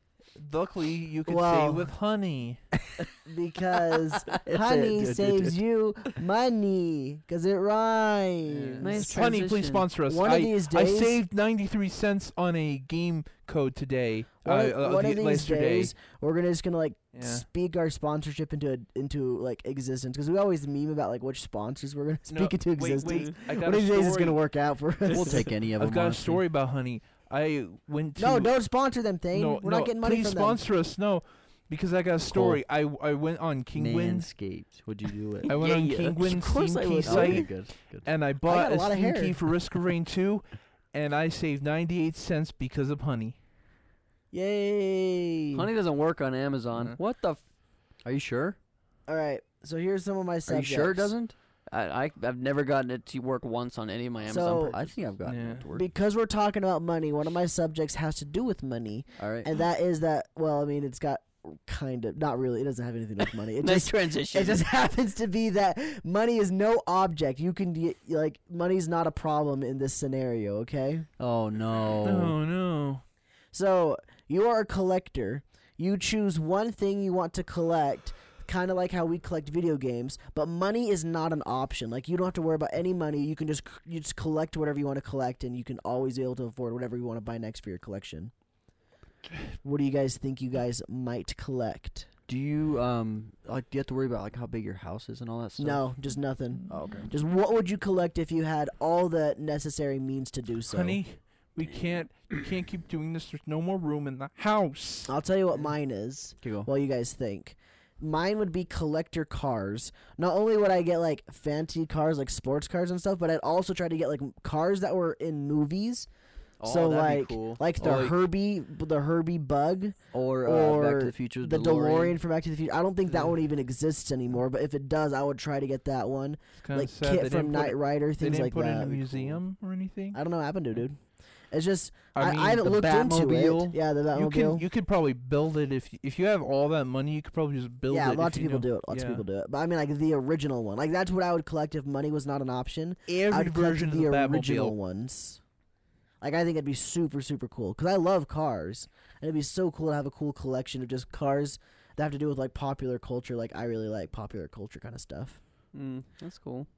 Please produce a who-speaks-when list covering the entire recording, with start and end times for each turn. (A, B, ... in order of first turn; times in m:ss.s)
0:00.4-0:02.6 A
0:01.3-0:01.9 B
0:03.1-0:09.2 B
0:04.4-0:05.6 C
0:08.5-0:15.9 A
0:08.8-0:09.9 D
0:10.1-0:11.2 B
0:14.4-0:25.5 B
0:17.1-0:17.4 A
0:22.3-0:24.4 A
0:23.1-0:23.3 D
0:25.1-0:26.4 C
0:25.8-0:28.5 A
0:28.2-0:30.6 B
0:29.3-0:34.3 A
0:32.3-0:32.6 C
0:33.8-0:35.5 C
0:35.4-0:36.2 D
0:35.5-0:43.4 A
0:35.7-0:37.5 B
0:37.0-0:38.1 C
0:38.4-0:39.4 B
0:44.3-0:45.7 B
0:45.5-0:47.4 D
0:48.0-0:48.6 C
0:49.1-0:51.2 B
0:50.5-0:51.3 C
0:51.7-0:54.8 D
0:54.2-0:55.9 C
0:54.3-0:54.8 B
0:55.2-0:55.6 A
0:55.7-1:11.1 B
0:59.2-0:59.5 C
1:03.6-1:04.6 D
1:11.2-1:12.4 C
1:12.0-1:13.0 A
1:13.5-1:28.3 B
1:29.6-1:32.1 B
1:32.3-1:35.8 C
1:35.6-1:41.0 B
1:36.7-1:37.1 C
1:40.7-1:45.1 A
1:45.1-1:56.1 B
1:46.4-1:46.7 C
1:56.6-1:57.6 C
1:56.6-2:09.4 B
1:57.8-1:58.1 A
2:00.1-2:02.2 C
2:06.6-2:10.2 A
2:10.1-2:11.0 B
2:11.5-2:14.6 B
2:12.1-2:12.8 A
2:12.6-2:13.8 C
2:14.1-2:19.2 A
2:17.9-2:25.4 B
2:23.1-2:24.8 A
2:26.2-2:35.4 B
2:35.7-2:36.7 D